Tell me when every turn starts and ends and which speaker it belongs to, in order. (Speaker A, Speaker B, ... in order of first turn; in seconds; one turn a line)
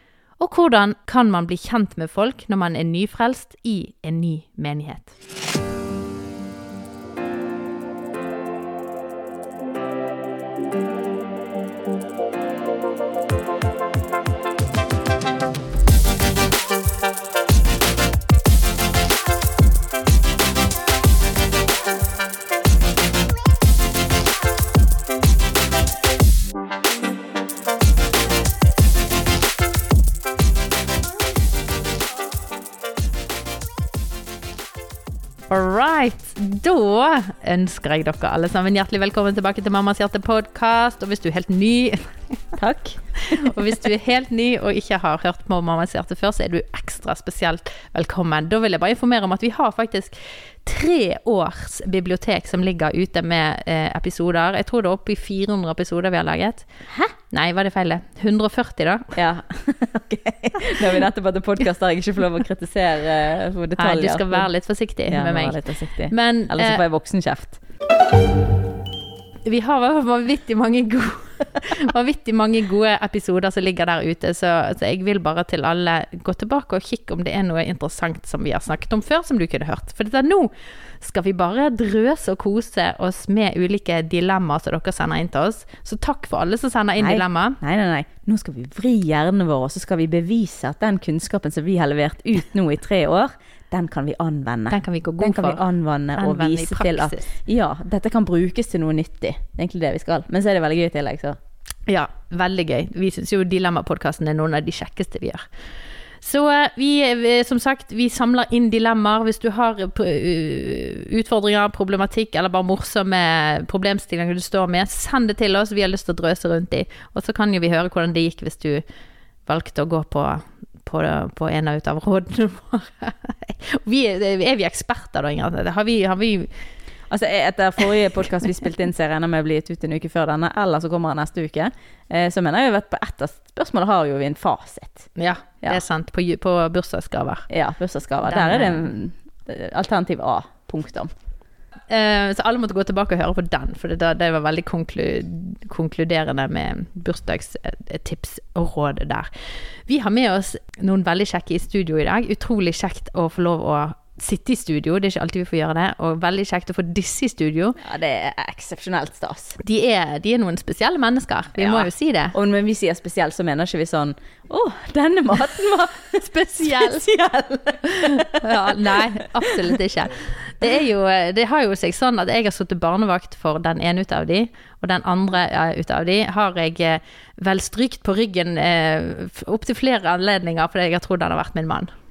Speaker A: 0.4-5.1
Speaker A: 35.5-42.5
Speaker B: 42.6-43.5
Speaker A: 43.4-59.2
Speaker B: 59.2-67.6
Speaker A: 63.8-66.8
Speaker A: 69.5-87.6
Speaker B: 87.0-101.4
Speaker A: 94.7-95.6
Speaker A: 96.1-97.2
Speaker A: 101.9-105.5
Speaker A: 106.2-118.8
Speaker A: 119.5-126.7
Speaker B: 127.1-135.8
Speaker A: 135.2-137.5
Speaker B: 137.5-141.1
Speaker A: 138.2-138.9
Speaker A: 141.9-157.8
Speaker B: 157.8-159.6
Speaker A: 159.6-162.3
Speaker B: 161.6-168.2
Speaker A: 166.2-167.1
Speaker A: 168.3-181.9